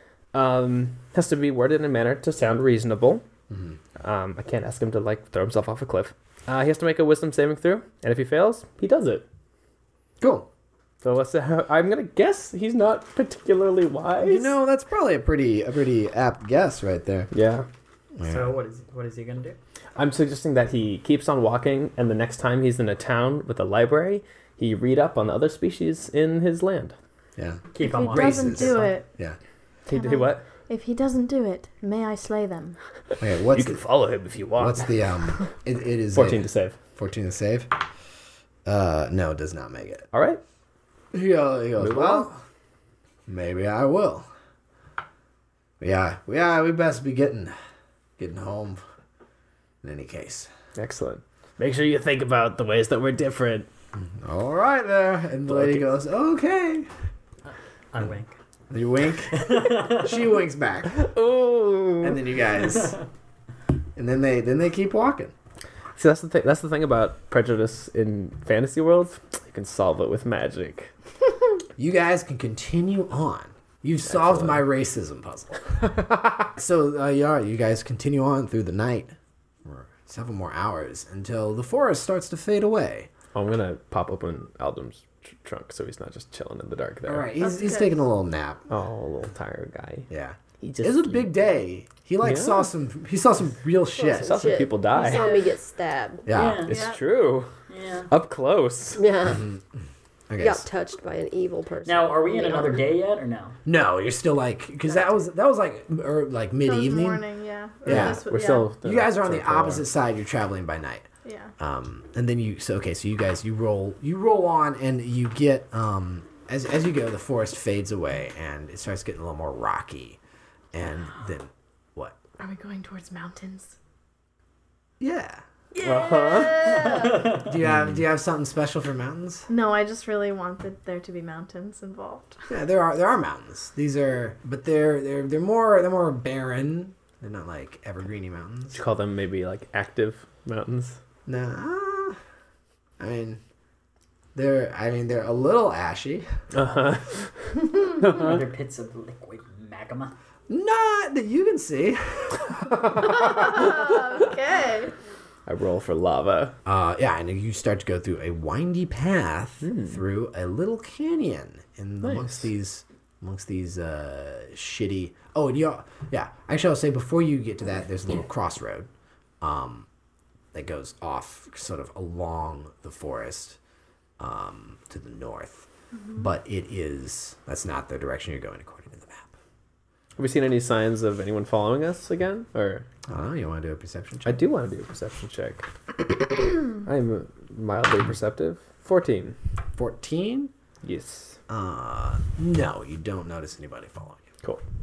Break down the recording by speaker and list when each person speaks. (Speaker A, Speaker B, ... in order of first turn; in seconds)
Speaker A: 0.3-3.2, 4.0-9.2, 11.0-14.5, 17.3-17.7, 20.0-26.9, 29.9-30.4, 33.5-34.9, 36.1-36.8, 40.1-40.4, 41.8-42.3, 50.8-53.7, 55.5-55.9, 60.9-62.2, 66.0-70.9, 74.0-74.6, 83.3-87.3, 88.7-91.3, 92.2-92.7, 94.2-95.3, 96.5-97.5, 98.1-99.0, 107.8-109.8, 125.8-126.9, 138.7-141.0, 146.5-148.4, 153.0-153.5, 155.4-156.6, 159.6-160.0, 162.0-162.4, 180.2-182.8, 184.2-189.3, 190.8-191.4
Speaker B: 3.5-3.8, 10.2-10.5, 14.2-17.3, 18.1-18.5, 27.4-29.4, 33.2-33.8, 34.5-37.8, 38.6-40.1, 41.1-42.4, 43.3-44.3, 45.8-47.5, 48.2-48.8, 49.8-50.5, 54.0-56.9, 58.7-61.0, 62.0-63.0, 64.0-65.3, 71.8-83.1, 87.0-88.6, 90.1-94.6, 96.2-96.7, 99.3-99.6, 100.3-100.7, 103.7-107.2, 107.8-108.2, 108.8-111.0, 111.6-120.2, 120.7-122.2, 125.0-125.4, 127.2-129.5, 132.5-138.8, 141.2-142.2, 143.0-143.4, 144.3-146.3, 150.5-153.1, 156.6-168.9, 169.4-169.9, 170.5-173.6, 174.2-179.3, 183.1-184.4, 189.8-190.5, 191.5-194.3
Speaker C: 18.2-19.6, 27.7-28.9, 57.4-58.4, 59.3-60.1, 96.3-96.8, 97.7-98.1, 101.8-103.6, 126.8-127.4, 148.0-150.1
Speaker D: 27.8-29.1, 29.9-32.8, 87.4-88.0, 96.7-97.0, 106.7-108.7, 111.2-111.5, 122.4-123.8, 125.7-127.3, 129.5-132.4, 153.0-154.9
Speaker E: 94.0-96.3, 99.0-99.5, 100.4-102.8